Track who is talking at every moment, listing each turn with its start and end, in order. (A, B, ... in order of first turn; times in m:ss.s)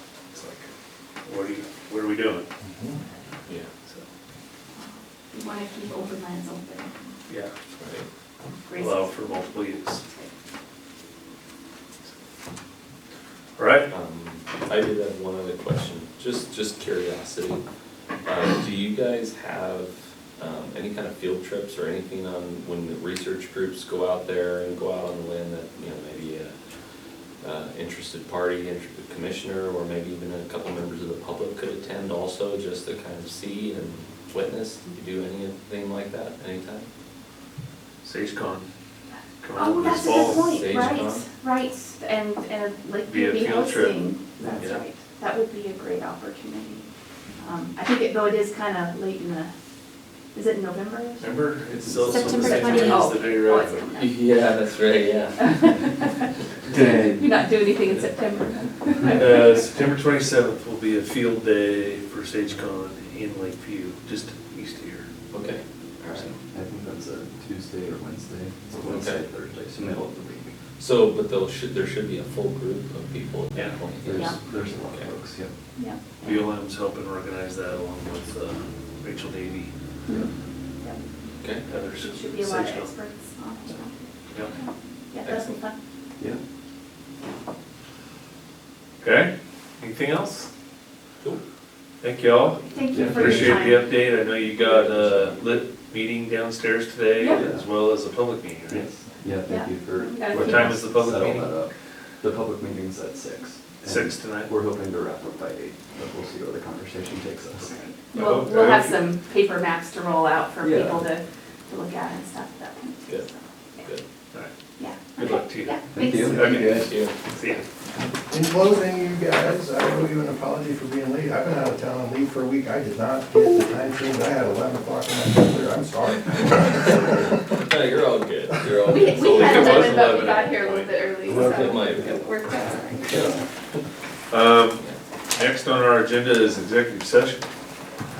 0:00.3-0:00.7 A
0:01.2-0:02.5 A
0:02.7-0:03.0 B
0:04.8-0:07.1 C
0:07.3-0:07.5 A
0:07.8-0:08.1 D
0:08.6-0:10.3 C
0:08.7-0:10.0 A
0:13.6-0:13.9 A
0:13.9-0:17.6 D
0:18.2-0:36.9 D
0:38.0-0:38.7 A
0:39.4-0:40.4 A
0:39.5-0:49.5 C
0:39.8-0:41.3 D
0:43.0-0:44.8 A
0:50.3-0:51.3 C
0:51.2-0:53.8 A
0:52.0-0:54.2 C
0:52.3-0:53.0 D
0:54.0-0:55.8 D
0:55.4-0:56.3 C
0:56.7-0:57.3 E
0:56.9-0:59.6 C
0:59.0-1:05.1 A
1:05.3-1:06.2 D
1:06.1-1:06.3 A
1:06.1-1:10.5 E
1:08.8-1:09.2 D
1:10.8-1:15.1 D
1:14.0-1:15.5 E
1:14.1-1:14.4 C
1:16.2-1:19.7 A
1:20.0-1:21.0 C
1:21.4-1:21.7 D
1:21.7-1:22.9 A
1:21.9-1:25.7 C
1:24.3-1:24.6 A
1:25.2-1:25.6 D
1:29.0-1:30.5 A
1:32.0-1:38.9 A
1:32.6-1:34.2 C
1:32.9-1:33.6 E
1:37.2-1:37.4 C
1:37.4-1:37.6 E
1:38.7-1:47.7 E
1:39.5-1:40.7 C
1:40.3-1:41.6 A
1:43.8-1:44.5 A
1:47.6-1:53.9 C
1:48.1-1:49.0 A
1:50.6-1:51.1 E
1:54.8-1:56.8 C
1:55.1-1:57.6 A
1:55.9-1:56.9 E
1:56.6-1:57.1 D
1:58.3-2:07.3 B
2:07.1-2:10.4 D
2:08.8-2:13.5 C
2:09.1-2:11.0 A
2:11.2-2:12.2 B
2:11.4-2:12.2 D
2:14.3-2:14.8 A
2:15.3-2:17.4 A